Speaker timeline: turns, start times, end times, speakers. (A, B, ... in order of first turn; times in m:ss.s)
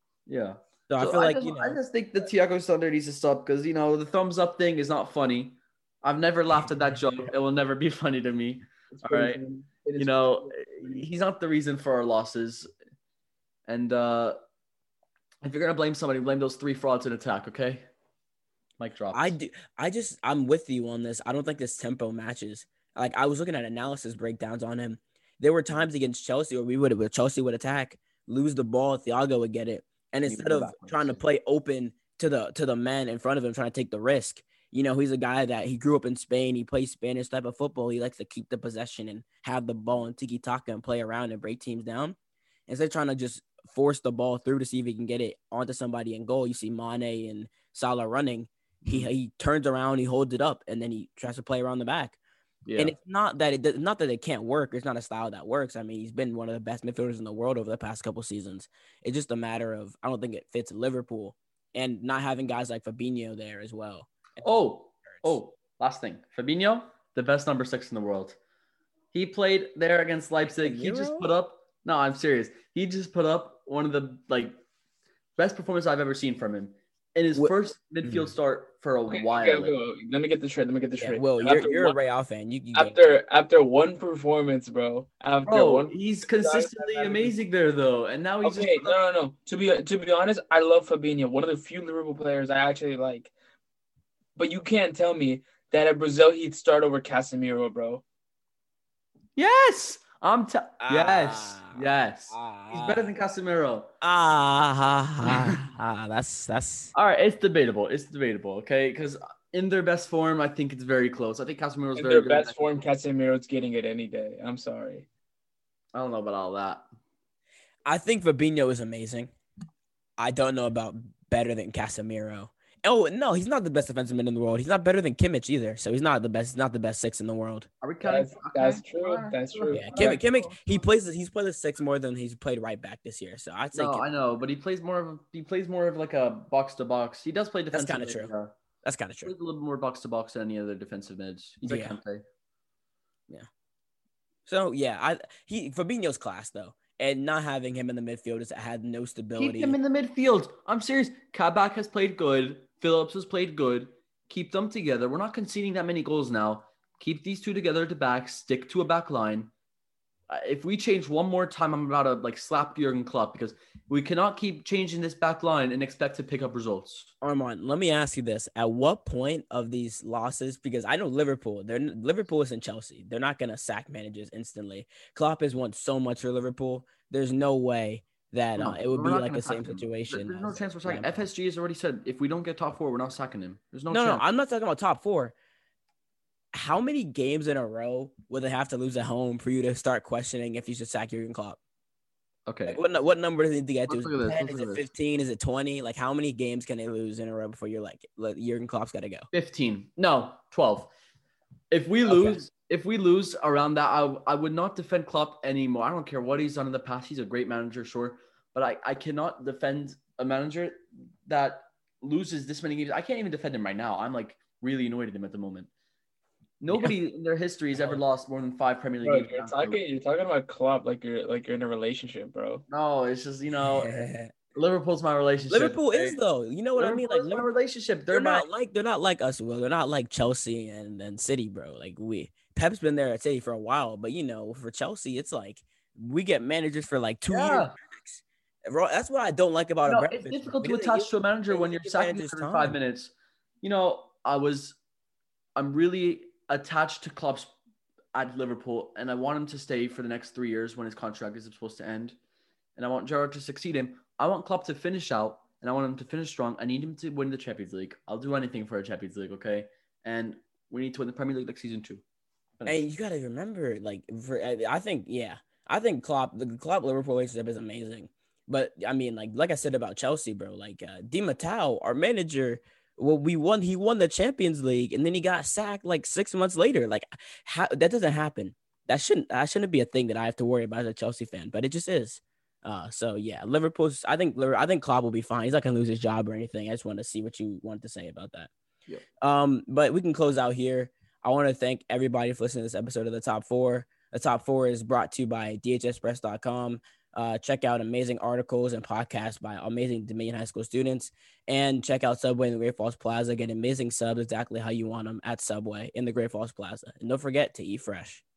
0:00.3-0:09.4 A
0:00.9-0:01.8 B
0:09.0-0:11.0 C
0:10.0-0:12.7 A
0:13.7-0:14.4 A
0:15.4-0:17.9 A
0:18.8-0:19.3 A
0:19.1-0:42.2 B
0:30.2-0:31.2 A
0:42.7-0:52.2 B
0:48.8-0:49.1 A
0:52.6-0:52.9 A
0:52.8-1:05.4 B
1:04.4-1:08.4 A
1:09.1-1:14.6 A
1:10.5-1:11.3 B
1:15.4-1:19.7 A
1:18.0-1:18.3 B
1:19.1-1:22.0 C
1:21.0-1:23.2 B
1:22.7-1:27.3 C
1:25.4-1:29.0 A
1:28.4-1:33.3 C
1:34.4-1:38.0 C
1:39.4-1:43.9 A
1:40.8-1:43.1 B
1:44.0-1:46.9 B
1:45.2-1:45.6 A
1:46.9-1:52.7 A
1:52.0-1:55.1 C
1:55.9-1:56.8 A
1:57.8-1:59.3 B
2:00.2-2:07.7 B
2:07.8-2:10.8 A
2:08.0-2:10.2 C
2:09.7-2:14.1 B
2:13.7-2:18.6 A
2:17.7-2:18.3 B
2:18.8-2:19.3 B
2:19.2-2:22.2 A
2:21.6-2:22.0 B
2:24.4-2:29.8 B
2:29.4-2:39.5 A
2:40.3-2:47.1 A
2:47.2-3:01.2 B
2:58.6-3:04.2 A
3:03.9-3:05.3 B
3:06.5-3:11.6 B
3:12.5-3:12.8 A
3:12.6-3:19.3 B
3:13.9-3:14.8 A
3:19.3-3:20.9 A
3:21.7-3:35.7 A
3:22.0-3:22.4 B
3:36.6-3:39.8 A
3:39.0-3:42.6 C
3:42.7-3:43.9 A
3:43.5-3:44.3 B
3:44.5-3:46.2 A
3:45.5-3:47.5 B
3:46.8-3:48.5 A
3:48.1-4:02.7 B
3:57.3-3:57.7 A
3:59.8-4:04.8 A
4:05.6-4:07.5 A
4:08.1-4:12.2 A
4:12.8-4:22.0 A
4:22.6-4:48.5 B
4:49.2-5:08.2 B